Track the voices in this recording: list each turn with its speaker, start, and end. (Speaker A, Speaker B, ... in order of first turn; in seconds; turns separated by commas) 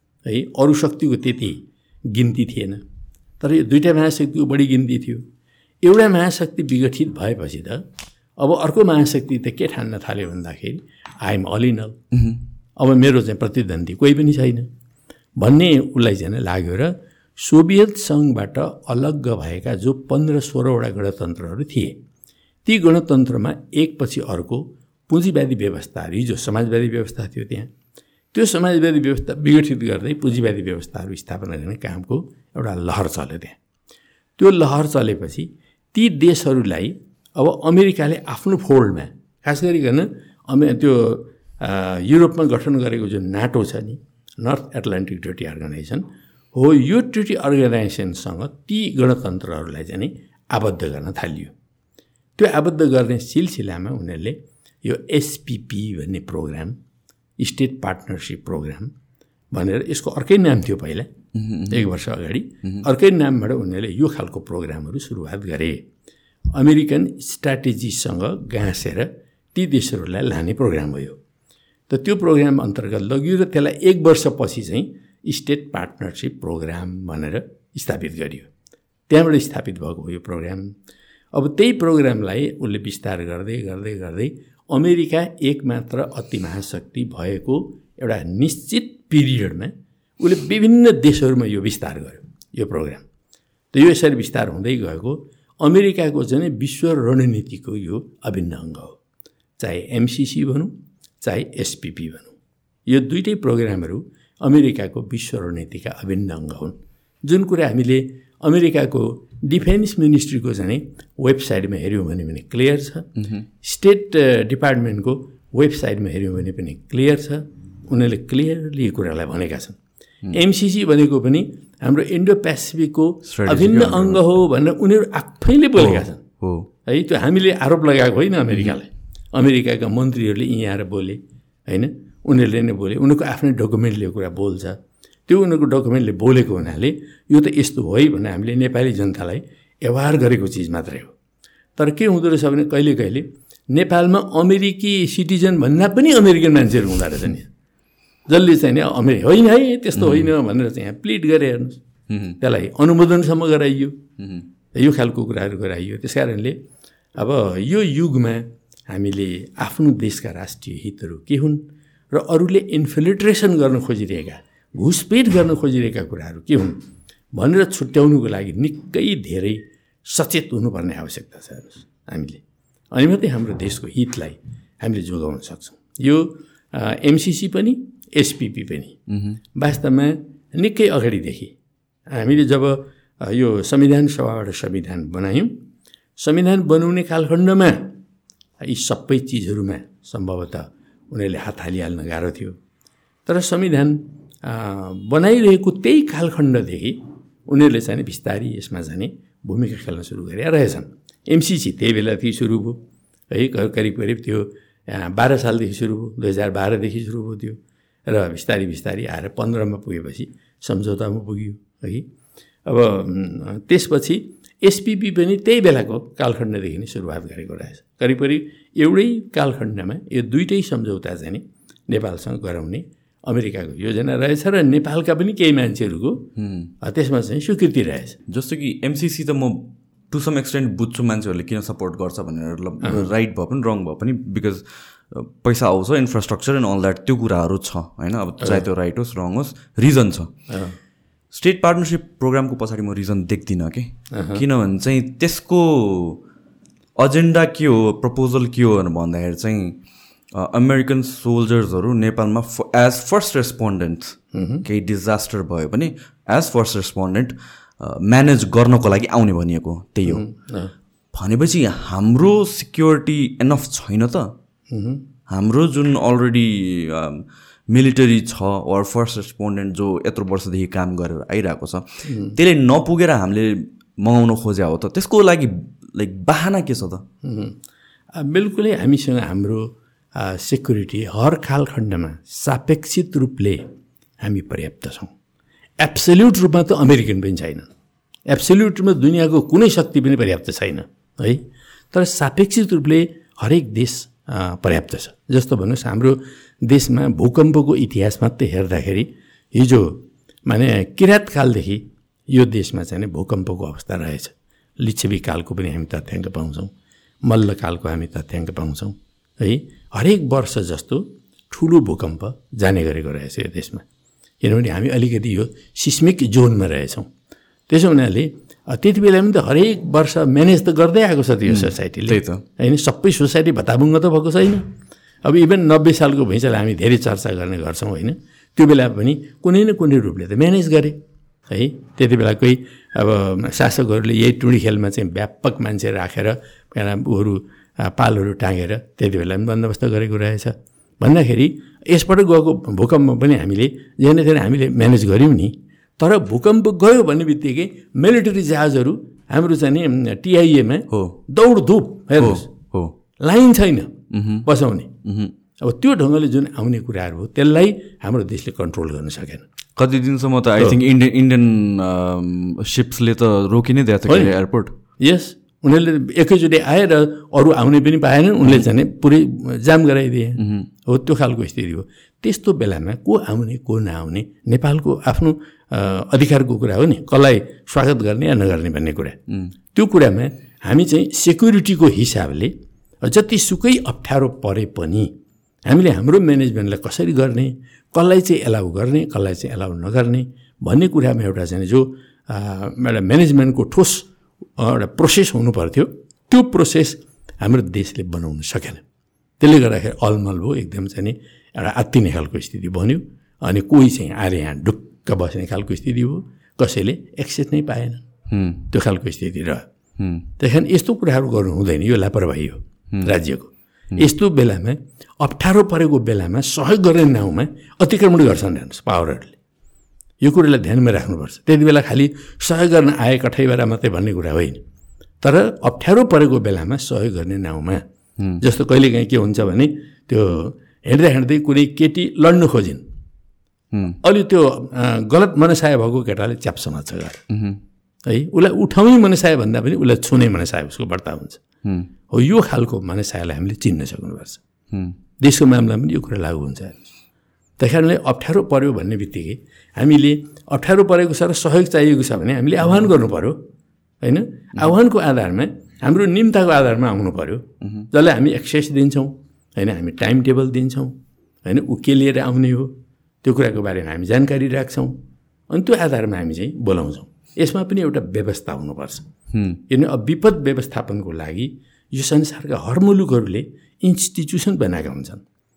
Speaker A: 0.2-2.8, Speaker A: 3.4-5.2, Speaker A: 5.8-7.8, Speaker A: 8.4-12.0, Speaker B: 12.1-12.4, Speaker A: 12.8-14.7, Speaker A: 15.4-22.0, Speaker A: 22.6-27.7, Speaker A: 28.3-33.6, Speaker A: 34.4-51.5, Speaker A: 52.4-56.8, Speaker A: 57.4-58.9, Speaker A: 59.5-61.1, Speaker B: 61.3-61.8, Speaker A: 61.7-65.8, Speaker A: 66.5-71.2, Speaker A: 71.9-78.5, Speaker A: 79.1-80.7, Speaker A: 81.3-93.0, Speaker A: 93.7-99.0, Speaker A: 99.6-102.3, Speaker A: 102.9-113.1, Speaker B: 113.2-113.5, Speaker A: 113.6-119.8, Speaker A: 120.3-126.2, Speaker B: 123.3-124.2, Speaker B: 125.8-126.7, Speaker A: 126.8-141.1, Speaker A: 141.8-147.5, Speaker A: 148.3-151.8, Speaker B: 150.0-150.3, Speaker B: 152.1-152.4, Speaker A: 152.3-154.1, Speaker B: 154.2-154.4, Speaker A: 154.7-156.6, Speaker A: 157.2-166.8, Speaker A: 167.3-172.4, Speaker A: 172.9-179.0, Speaker B: 179.1-179.4, Speaker A: 179.5-181.5, Speaker A: 182.1-185.5, Speaker A: 186.2-188.0, Speaker A: 188.6-192.6, Speaker A: 193.2-202.8, Speaker A: 203.3-212.1, Speaker A: 212.7-226.3, Speaker B: 226.4-226.7, Speaker A: 226.8-228.2, Speaker B: 228.3-240.3, Speaker A: 240.5-240.8, Speaker B: 241.3-246.2, Speaker A: 244.1-244.4, Speaker B: 247.0-249.8, Speaker B: 250.3-260.2, Speaker A: 254.3-254.6, Speaker A: 260.0-260.7, Speaker B: 261.1-264.3, Speaker A: 264.7-265.0, Speaker B: 265.3-277.0, Speaker A: 272.0-272.4, Speaker A: 277.2-277.6, Speaker A: 278.1-283.6, Speaker A: 284.2-285.1, Speaker A: 285.8-287.7, Speaker A: 288.3-306.7, Speaker A: 307.2-313.8, Speaker A: 314.4-317.1, Speaker A: 317.7-324.6, Speaker B: 321.5-322.4, Speaker A: 325.2-331.0, Speaker A: 331.5-352.5, Speaker B: 350.9-351.2, Speaker B: 352.2-352.9, Speaker A: 353.2-355.0, Speaker B: 354.1-354.5, Speaker B: 355.0-355.3, Speaker A: 355.6-359.4, Speaker B: 359.8-364.7, Speaker A: 364.1-364.3, Speaker A: 365.0-379.2, Speaker B: 370.4-370.7, Speaker A: 379.7-385.1, Speaker A: 385.6-394.1, Speaker A: 394.6-398.8, Speaker A: 399.4-408.1, Speaker B: 408.3-408.6, Speaker A: 408.7-409.6, Speaker B: 410.0-410.3, Speaker A: 410.4-419.4, Speaker A: 420.2-424.6, Speaker A: 425.2-427.8, Speaker A: 428.4-432.8, Speaker B: 433.7-434.0, Speaker A: 434.0-437.2, Speaker B: 437.3-437.6, Speaker A: 438.1-441.4, Speaker A: 442.1-444.4, Speaker A: 445.2-446.9, Speaker A: 447.6-453.4, Speaker A: 454.0-464.9, Speaker A: 465.5-469.1, Speaker B: 469.3-469.6, Speaker A: 469.7-475.2